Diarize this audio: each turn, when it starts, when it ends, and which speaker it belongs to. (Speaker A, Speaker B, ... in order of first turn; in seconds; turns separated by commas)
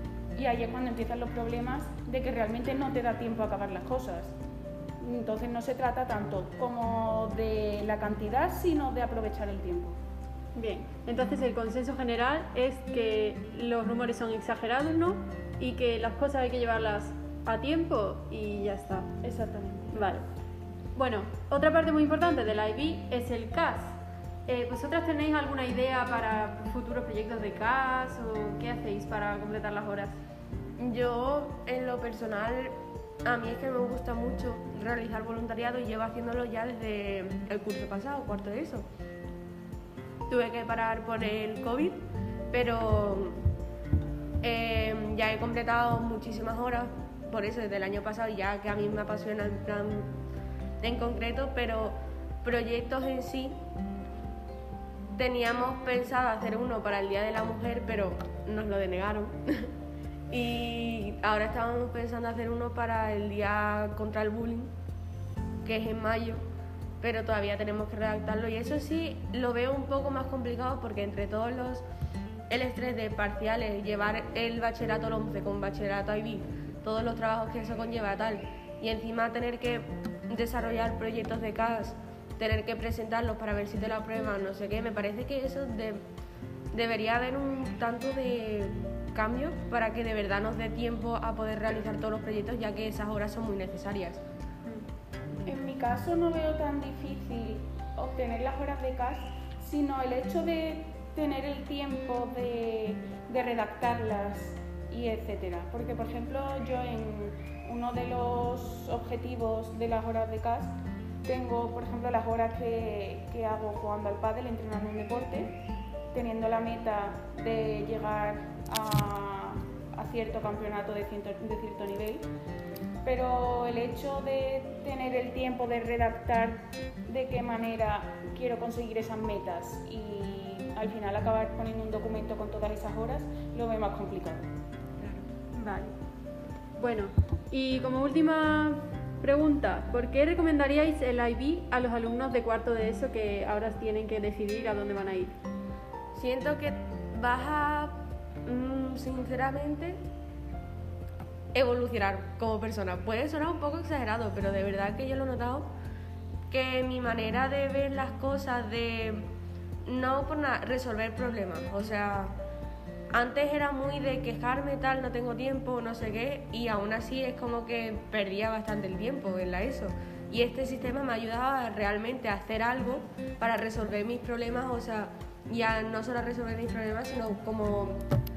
Speaker A: 0.3-4.3, Speaker A: 5.0-10.0, Speaker B: 10.6-19.1, Speaker A: 19.2-20.0, Speaker B: 19.9-20.2, Speaker B: 21.0-23.9, Speaker B: 24.5-30.2, Speaker C: 30.8-32.8, Speaker C: 33.3-38.9, Speaker C: 40.3-43.4, Speaker C: 44.4-50.1, Speaker C: 50.8-53.5, Speaker C: 55.2-59.7, Speaker C: 60.3-64.7, Speaker C: 65.7-66.4, Speaker C: 67.0-71.8, Speaker C: 72.5-86.0, Speaker C: 86.7-94.2, Speaker A: 95.5-110.7, Speaker A: 111.2-115.5, Speaker A: 116.1-122.2, Speaker A: 123.0-134.5, Speaker B: 135.0-135.9, Speaker B: 136.8-145.3, Speaker C: 146.2-150.0, Speaker C: 151.5-155.7, Speaker C: 156.5-159.3, Speaker C: 159.9-162.4, Speaker C: 163.1-178.0